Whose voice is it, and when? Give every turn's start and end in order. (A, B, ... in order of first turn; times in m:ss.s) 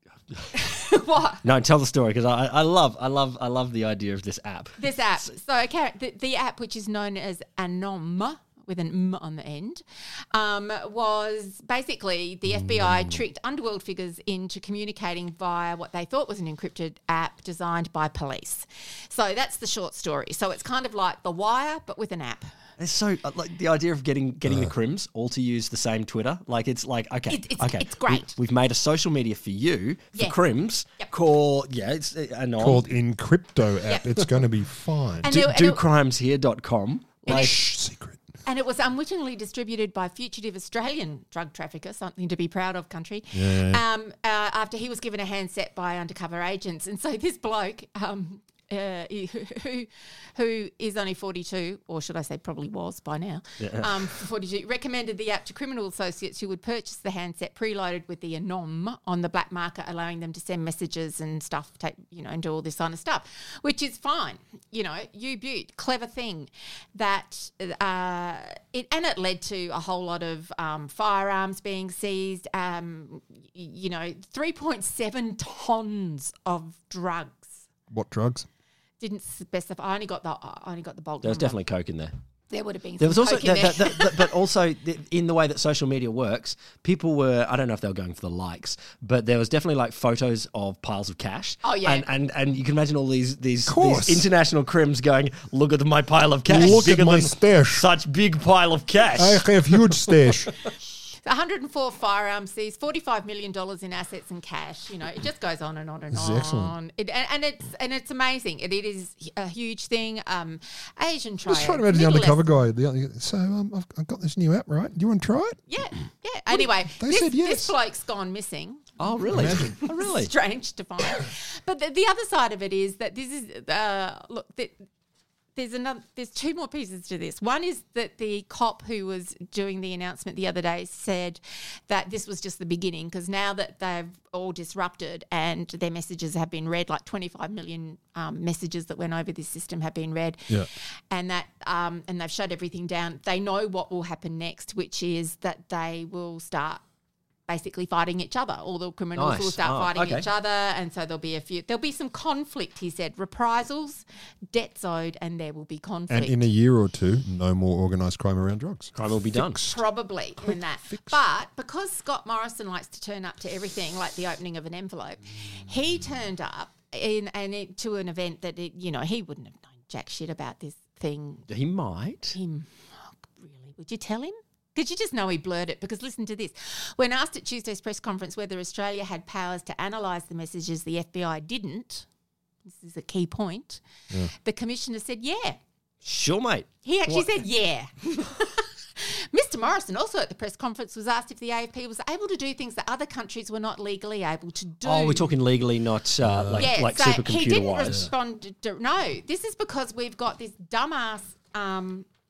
0:00.5-0:01.4 A
0:01.4-0:04.8 B
0:04.8-0:22.5 A
0:12.8-0:13.1 C
0:22.8-0:32.8 B
0:24.5-0:24.7 C
0:27.3-0:28.4 A
0:32.6-0:35.4 C
0:35.2-0:35.8 A
0:35.3-0:37.6 B
0:37.3-0:37.6 A
0:37.3-0:38.2 C
0:38.4-1:17.6 A
0:43.3-0:43.8 C
0:53.6-0:54.1 B
1:17.9-1:18.5 C
1:19.0-1:21.6 A
1:21.2-1:22.1 B
1:22.5-1:24.3 A
1:23.0-1:39.8 B
1:31.6-1:32.1 A
1:33.6-1:34.3 C
1:36.5-1:37.9 C
1:39.2-1:40.5 C
1:41.2-1:52.4 A
1:46.1-1:46.8 C
1:51.5-1:55.6 C
1:55.7-2:04.8 A
1:56.5-1:57.8 C
1:59.0-2:00.3 B
1:59.3-1:59.8 C
2:05.6-2:20.5 A
2:21.1-2:26.8 A
2:27.5-2:36.4 A
2:29.2-2:30.3 B
2:36.1-2:39.8 C
2:39.0-2:39.7 B
2:39.6-2:51.4 A
2:40.4-2:41.2 C
2:51.5-2:52.4 B
2:52.3-2:52.7 A
2:53.2-3:02.1 A
3:02.6-3:05.6 A
3:06.0-3:07.3 B
3:06.8-3:15.3 A
3:14.8-3:18.1 B
3:16.2-3:16.7 C
3:16.6-3:22.1 A